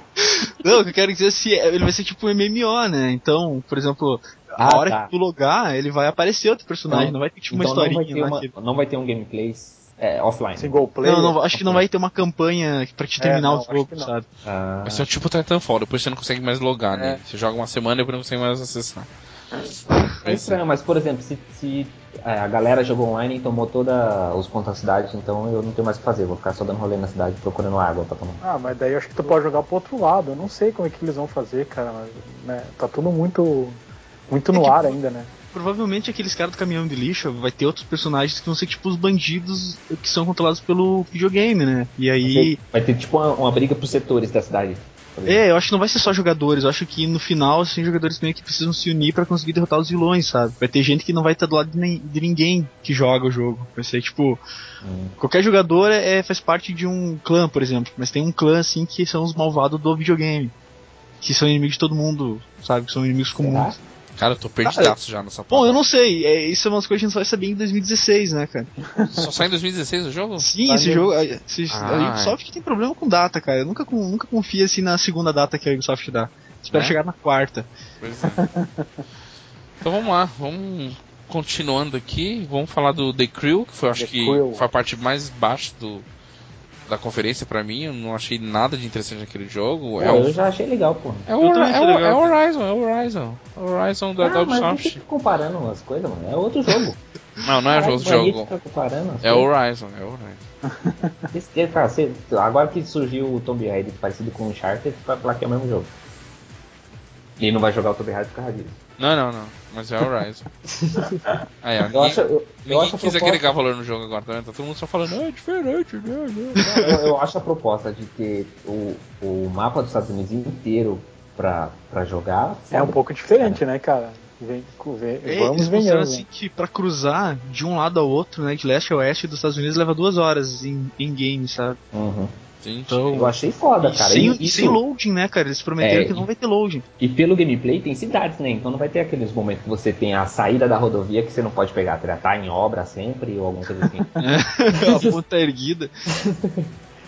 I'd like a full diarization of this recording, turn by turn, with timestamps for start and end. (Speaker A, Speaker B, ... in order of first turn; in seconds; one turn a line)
Speaker A: 0.2-8.5
Speaker B: 4.6-5.1
Speaker B: 6.9-10.8
Speaker C: 10.6-11.4
Speaker A: 11.0-14.2
Speaker B: 11.5-11.8
Speaker C: 13.2-14.1
Speaker B: 14.4-15.1
Speaker D: 14.8-19.1
Speaker C: 16.9-17.2
Speaker D: 20.2-20.6
Speaker B: 20.2-28.4
Speaker C: 28.4-35.3
Speaker A: 34.5-35.0
Speaker A: 35.5-42.6
Speaker B: 42.2-45.4
Speaker A: 45.2-54.4
Speaker B: 54.8-55.1
Speaker A: 55.2-60.5
Speaker A: 61.2-63.8
Speaker B: 63.4-63.8
Speaker D: 64.2-65.8
Speaker A: 64.6-64.9
Speaker A: 65.5-68.7
Speaker C: 69.0-69.3
Speaker D: 69.1-70.5
Speaker A: 70.4-77.7
Speaker C: 70.6-71.1
Speaker D: 71.7-72.4
Speaker D: 76.7-77.0
Speaker D: 78.0-78.4
Speaker C: 78.4-78.9
Speaker D: 79.8-86.0
Speaker C: 83.9-84.6
Speaker D: 86.9-90.4
Speaker B: 90.0-91.3
Speaker D: 91.3-95.0
Speaker A: 91.4-92.3
Speaker B: 94.2-97.0
Speaker D: 97.4-98.5
Speaker B: 97.7-99.5
Speaker D: 99.2-100.4
Speaker C: 100.7-101.1
Speaker B: 101.3-105.9
Speaker B: 107.4-108.8
Speaker D: 109.0-110.4
Speaker B: 110.7-111.4
Speaker D: 111.6-116.6
Speaker B: 111.9-113.5
Speaker B: 116.6-123.6
Speaker A: 116.6-116.9
Speaker C: 122.7-126.2
Speaker A: 125.2-131.8
Speaker B: 131.9-132.3
Speaker D: 132.6-133.1
Speaker A: 132.9-136.8
Speaker B: 133.1-134.8
Speaker B: 135.8-136.3
Speaker B: 137.0-144.1
Speaker A: 144.2-145.9
Speaker B: 146.2-146.7